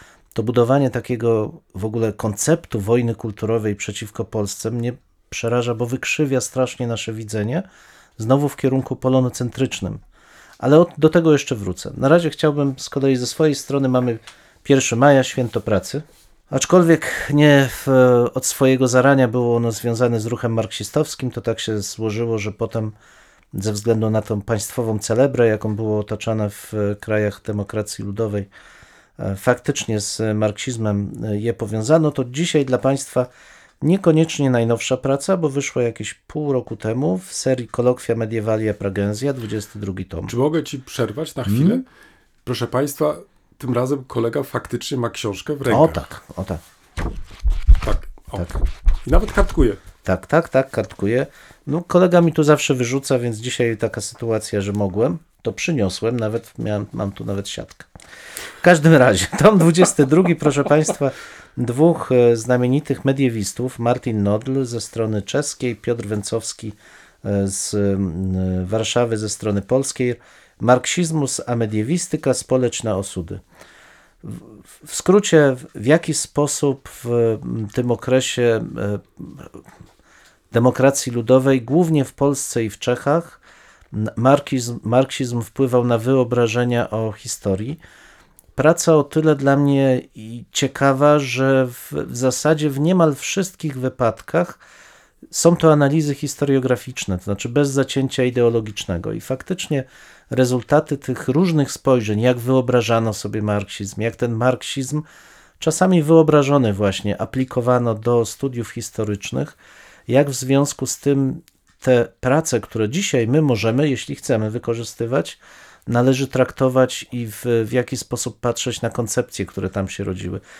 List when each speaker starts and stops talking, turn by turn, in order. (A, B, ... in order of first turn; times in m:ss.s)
0:00.3-0:07.6 A
0:08.2-0:10.0 A
0:10.6-0:22.9 A
0:23.5-0:28.5 A
0:29.2-0:33.3 A
0:33.8-0:40.3 A
0:40.2-0:41.8 B
0:41.5-0:41.8 A
0:42.4-0:46.1 B
0:45.7-0:46.6 A
0:47.8-0:49.8 B
0:50.0-0:57.9 A
0:58.6-1:13.4 A
1:14.2-1:19.6 A
1:20.5-1:23.4 A
1:23.9-1:27.8 A
1:28.6-1:34.6 A
1:35.3-1:45.0 A
1:45.6-1:49.6 A
1:50.1-2:00.4 A